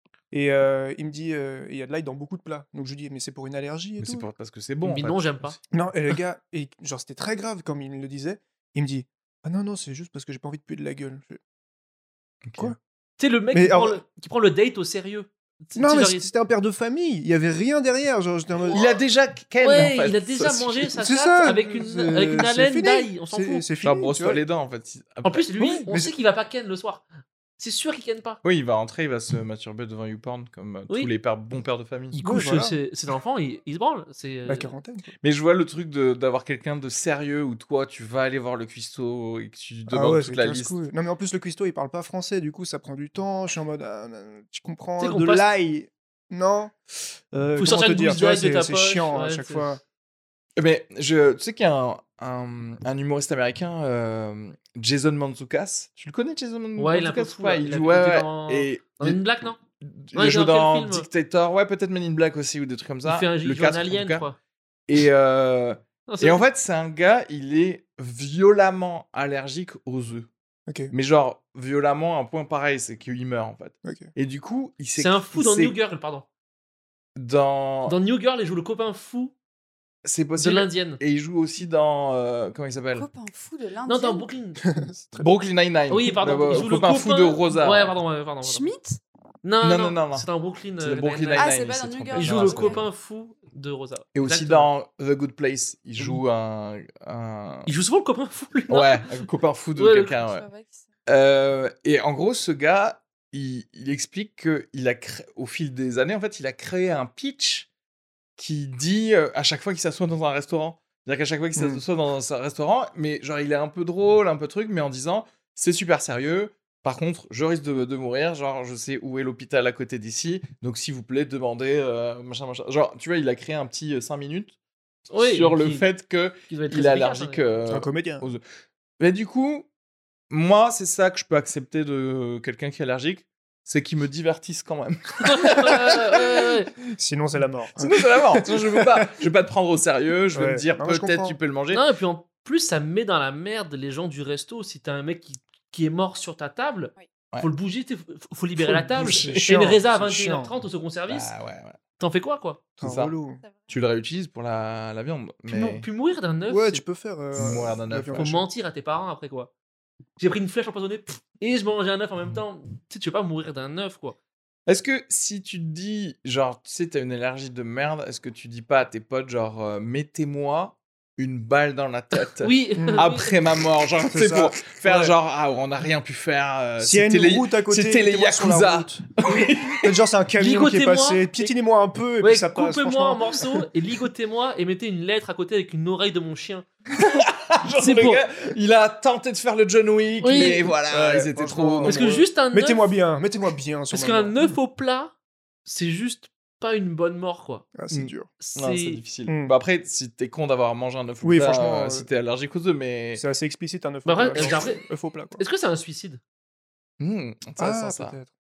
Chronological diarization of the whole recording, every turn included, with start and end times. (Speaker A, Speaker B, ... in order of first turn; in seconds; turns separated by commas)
Speaker A: 0.3-4.3, Speaker B: 4.0-5.6, Speaker C: 4.8-5.6, Speaker A: 5.7-11.4, Speaker B: 12.4-12.7, Speaker C: 13.2-16.2, Speaker A: 13.5-14.0, Speaker A: 15.8-18.9, Speaker B: 18.7-20.9, Speaker C: 19.6-23.7, Speaker A: 20.9-24.4, Speaker B: 23.8-25.5, Speaker C: 25.2-27.1, Speaker A: 25.6-26.1, Speaker C: 27.6-28.4, Speaker B: 28.4-32.2, Speaker C: 32.1-34.7, Speaker A: 32.2-32.8, Speaker A: 34.5-35.1, Speaker B: 35.2-40.8, Speaker A: 39.9-46.8, Speaker C: 45.0-45.5, Speaker A: 47.3-49.8, Speaker C: 47.6-49.8, Speaker B: 50.6-59.2, Speaker C: 56.8-59.6, Speaker B: 59.8-64.3, Speaker C: 60.1-61.1, Speaker C: 63.1-64.4, Speaker B: 64.9-70.3, Speaker C: 66.1-66.4, Speaker A: 70.7-70.9, Speaker B: 70.9-75.8, Speaker C: 75.0-76.2, Speaker B: 77.2-78.0, Speaker C: 77.9-79.3, Speaker B: 80.0-83.0, Speaker C: 80.4-81.0, Speaker D: 82.9-84.2, Speaker C: 83.9-84.6, Speaker A: 84.6-85.3, Speaker B: 85.2-87.9, Speaker C: 85.9-88.7, Speaker D: 88.4-89.0, Speaker C: 89.4-91.5, Speaker B: 89.6-90.3, Speaker B: 90.8-92.8, Speaker D: 91.4-92.9, Speaker C: 92.1-94.7, Speaker B: 94.1-97.7, Speaker C: 97.7-99.1, Speaker B: 98.7-100.4, Speaker C: 99.8-100.2, Speaker D: 100.1-100.8, Speaker B: 101.0-107.7, Speaker B: 108.4-124.5, Speaker A: 111.5-111.8, Speaker C: 125.1-125.9, Speaker B: 125.3-128.4, Speaker C: 126.5-127.5, Speaker A: 127.7-128.2, Speaker B: 129.0-129.7, Speaker B: 130.3-136.2, Speaker C: 135.2-136.7, Speaker A: 136.9-139.1, Speaker B: 137.8-141.8, Speaker A: 140.3-141.4, Speaker C: 141.7-151.3, Speaker A: 148.6-150.5, Speaker B: 149.0-149.6, Speaker B: 151.1-151.8, Speaker C: 152.0-152.6, Speaker A: 152.8-153.4, Speaker B: 152.8-153.1, Speaker B: 153.7-155.9, Speaker C: 155.5-156.8, Speaker A: 156.5-158.5, Speaker B: 157.3-158.3, Speaker C: 158.1-159.5, Speaker C: 160.2-164.2, Speaker B: 164.7-180.0, Speaker C: 172.4-173.3, Speaker A: 172.8-173.1, Speaker A: 174.1-175.1, Speaker A: 176.8-179.1, Speaker A: 179.7-183.7, Speaker C: 180.4-181.5, Speaker C: 182.2-186.7, Speaker B: 187.0-192.0, Speaker C: 187.8-188.2, Speaker C: 190.2-190.6, Speaker D: 190.3-190.6, Speaker A: 190.4-194.5, Speaker C: 191.8-192.9, Speaker C: 193.9-195.1, Speaker C: 195.6-197.7, Speaker A: 197.8-198.3, Speaker B: 197.9-203.2, Speaker C: 198.4-199.0, Speaker A: 199.3-199.6, Speaker A: 201.2-202.1, Speaker A: 203.2-205.4, Speaker C: 204.1-204.8, Speaker C: 205.4-206.2, Speaker B: 207.0-208.2, Speaker A: 207.6-208.3